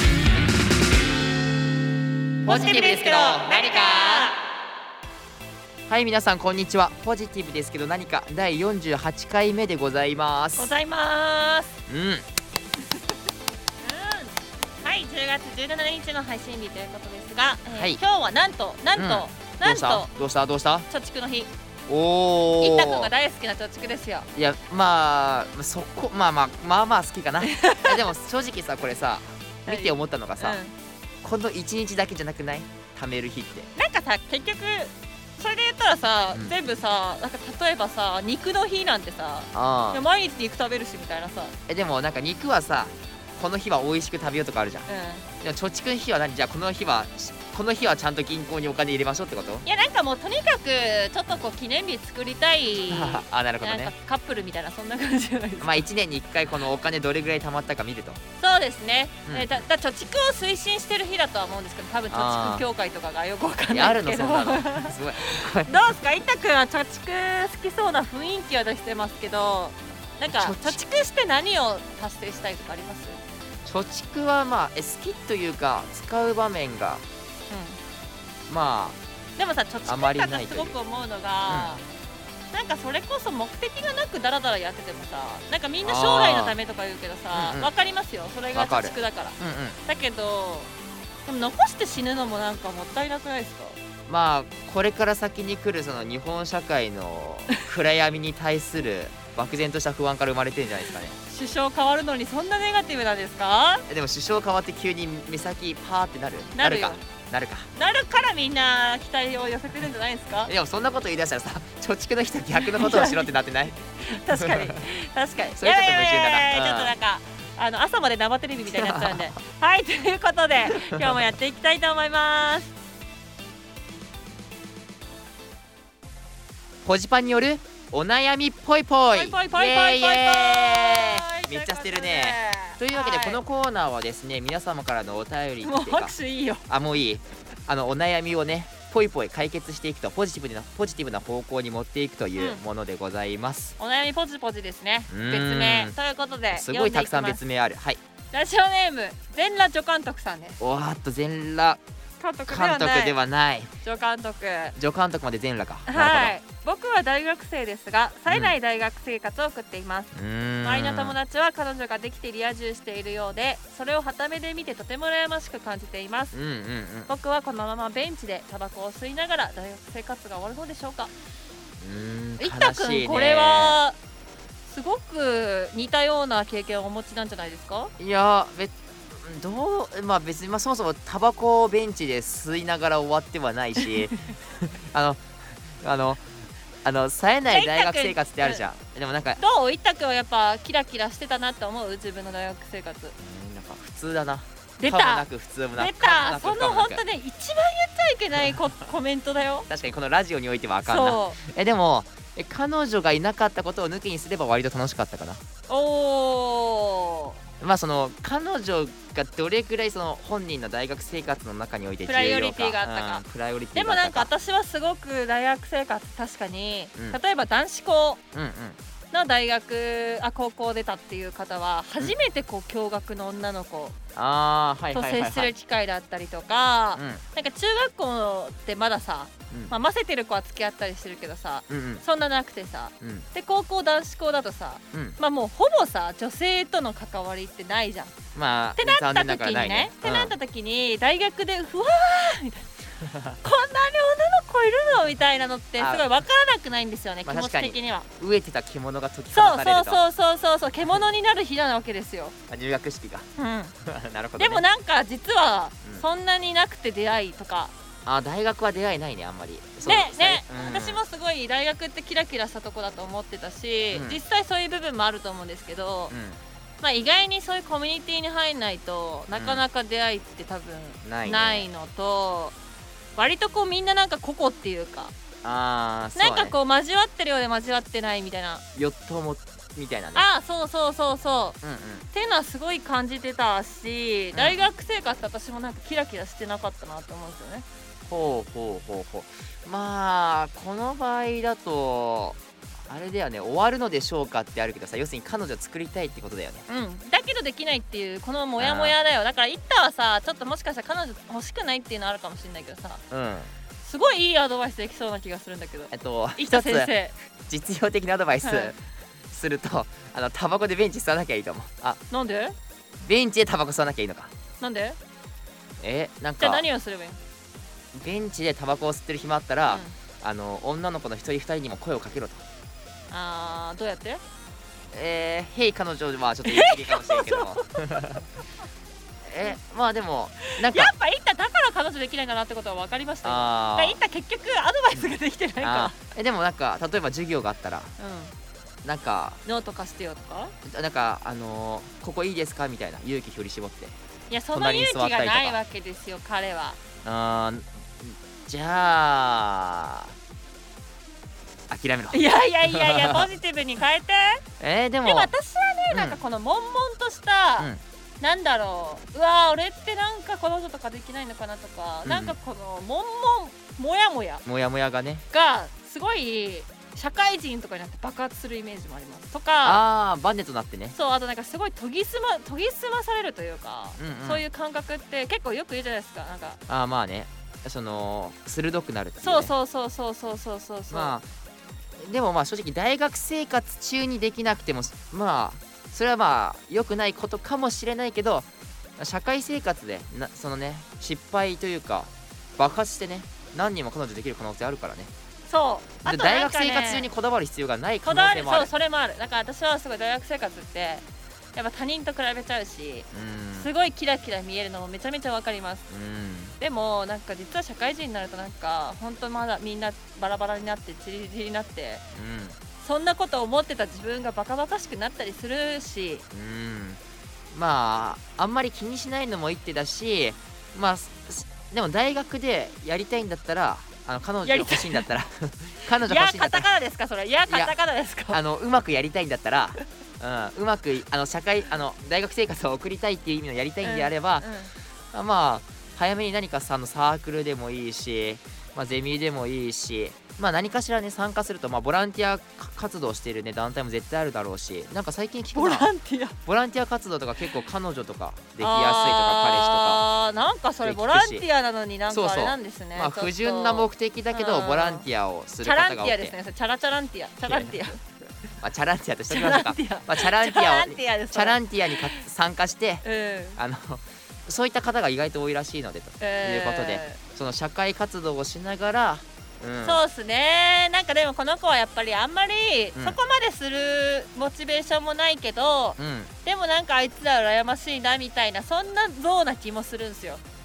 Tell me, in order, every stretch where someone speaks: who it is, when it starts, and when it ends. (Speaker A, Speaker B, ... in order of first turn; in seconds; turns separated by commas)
Speaker A: 2.4-4.3, Speaker B: 2.5-4.4, Speaker A: 5.9-10.7, Speaker B: 10.6-11.8, Speaker A: 11.9-12.3, Speaker B: 13.8-20.1, Speaker A: 17.7-18.0, Speaker A: 18.9-20.9, Speaker B: 20.9-21.5, Speaker A: 21.9-23.1, Speaker B: 22.6-24.3, Speaker A: 24.4-30.6, Speaker B: 27.4-28.0, Speaker B: 29.6-30.7, Speaker A: 31.2-33.7, Speaker B: 33.8-41.5, Speaker A: 39.5-40.0, Speaker A: 41.7-44.9, Speaker B: 44.9-45.2, Speaker A: 45.4-49.6, Speaker B: 49.6-55.8, Speaker A: 52.9-53.9, Speaker A: 55.6-58.2, Speaker B: 58.4-73.2, Speaker A: 59.2-59.6, Speaker A: 62.1-62.6, Speaker A: 63.7-65.8, Speaker A: 70.3-70.8, Speaker A: 73.7-77.0, Speaker B: 77.5-77.8, Speaker A: 78.5-79.0, Speaker B: 79.4-81.8, Speaker A: 79.8-80.8, Speaker A: 81.5-81.8, Speaker B: 82.5-90.7, Speaker A: 85.8-86.6, Speaker A: 87.3-87.7, Speaker A: 88.5-89.8, Speaker B: 91.2-93.8, Speaker A: 94.1-101.2, Speaker B: 101.3-103.8, Speaker A: 103.9-107.7, Speaker B: 106.5-107.0, Speaker B: 107.7-110.5, Speaker A: 110.5-114.8, Speaker B: 112.6-113.3, Speaker B: 114.0-122.7, Speaker A: 115.5-116.9, Speaker A: 118.6-119.3, Speaker A: 120.7-121.2, Speaker A: 126.8-136.1, Speaker B: 129.1-133.4, Speaker B: 135.6-136.6, Speaker A: 136.7-143.7, Speaker B: 142.3-142.6, Speaker B: 143.8-147.4, Speaker A: 145.1-145.9, Speaker A: 146.5-148.0, Speaker B: 148.3-150.6, Speaker A: 150.6-151.8, Speaker B: 152.2-153.2, Speaker A: 152.5-153.7, Speaker B: 153.8-154.8, Speaker A: 154.8-156.4, Speaker B: 155.9-160.1, Speaker A: 158.3-158.5, Speaker A: 160.1-161.2, Speaker B: 160.6-166.3, Speaker A: 166.3-167.1, Speaker B: 167.1-171.1, Speaker A: 171.8-173.8, Speaker B: 172.4-173.9, Speaker B: 174.7-177.9, Speaker A: 178.0-189.4, Speaker B: 187.5-188.6, Speaker B: 189.4-193.2, Speaker A: 193.2-197.0, Speaker B: 194.8-199.7, Speaker A: 199.7-205.4, Speaker B: 200.8-201.4, Speaker B: 205.7-207.4, Speaker A: 207.6-214.3, Speaker B: 212.0-213.2, Speaker B: 213.7-218.2, Speaker A: 218.3-218.8, Speaker B: 219.1-223.9, Speaker A: 224.1-225.5, Speaker B: 224.9-238.2, Speaker A: 226.9-227.2, Speaker A: 231.7-232.0, Speaker A: 233.0-233.3, Speaker A: 234.9-235.2, Speaker A: 238.3-240.3, Speaker B: 238.8-242.7, Speaker B: 243.3-248.1, Speaker A: 245.8-246.1, Speaker A: 247.2-250.0, Speaker B: 249.3-252.3, Speaker A: 252.5-253.3, Speaker B: 253.4-253.7, Speaker A: 253.8-254.7, Speaker B: 254.4-257.7, Speaker A: 258.1-261.0, Speaker B: 259.8-266.1, Speaker A: 263.9-264.2, Speaker A: 266.1-266.4, Speaker B: 266.8-272.6, Speaker A: 269.3-269.6, Speaker A: 271.0-271.7, Speaker B: 273.1-275.1, Speaker A: 275.4-276.5, Speaker B: 276.1-278.6, Speaker A: 278.7-280.2, Speaker B: 280.1-281.6, Speaker A: 281.6-282.0, Speaker B: 282.1-287.6, Speaker A: 284.3-284.7, Speaker A: 288.1-292.4, Speaker A: 292.9-296.6, Speaker B: 296.7-303.0, Speaker A: 298.6-298.9, Speaker A: 303.1-303.5, Speaker B: 303.8-307.1, Speaker A: 305.9-306.9, Speaker A: 307.5-308.8, Speaker B: 308.4-308.7, Speaker A: 309.3-312.0, Speaker B: 312.1-312.5, Speaker A: 313.0-314.3, Speaker B: 314.6-315.0, Speaker A: 315.8-316.6, Speaker B: 316.4-317.2, Speaker A: 317.9-322.4, Speaker B: 319.7-319.9, Speaker B: 323.1-324.2, Speaker A: 324.9-328.2, Speaker B: 326.4-328.2, Speaker A: 329.2-330.9, Speaker B: 330.4-335.9, Speaker A: 333.2-334.0, Speaker A: 335.6-337.9, Speaker B: 338.0-338.3, Speaker A: 338.8-339.4, Speaker B: 339.4-340.5, Speaker A: 340.6-343.9, Speaker B: 344.3-346.8, Speaker A: 344.5-345.6, Speaker A: 347.0-350.1, Speaker A: 351.7-353.3, Speaker B: 352.1-354.4, Speaker A: 354.6-355.3, Speaker B: 355.0-357.7, Speaker A: 355.9-356.2, Speaker B: 358.2-364.4, Speaker A: 362.0-362.4, Speaker A: 364.4-365.2, Speaker B: 365.3-369.8, Speaker A: 369.6-370.9, Speaker B: 370.9-376.6, Speaker A: 374.0-374.4, Speaker A: 376.7-379.5, Speaker B: 379.2-381.1, Speaker A: 380.9-381.2, Speaker A: 382.0-395.1, Speaker B: 395.5-397.1, Speaker A: 396.0-398.7, Speaker B: 398.0-405.9, Speaker A: 403.1-403.7, Speaker A: 405.9-406.6, Speaker B: 406.6-412.0, Speaker A: 412.1-412.6, Speaker B: 412.8-416.2, Speaker A: 416.3-417.0, Speaker A: 417.5-426.7, Speaker B: 424.4-425.1, Speaker B: 426.0-428.4, Speaker A: 427.5-427.7, Speaker A: 428.3-434.5, Speaker B: 433.8-434.7, Speaker A: 435.1-445.9, Speaker B: 445.5-446.4, Speaker A: 446.4-450.0, Speaker B: 448.6-455.1, Speaker A: 450.8-451.4, Speaker A: 452.1-456.3, Speaker B: 455.6-458.0, Speaker A: 457.4-457.8, Speaker A: 458.6-463.0, Speaker B: 459.3-462.2, Speaker B: 463.0-463.6, Speaker A: 463.6-470.0, Speaker B: 466.2-467.2, Speaker B: 469.8-480.4, Speaker A: 476.0-476.3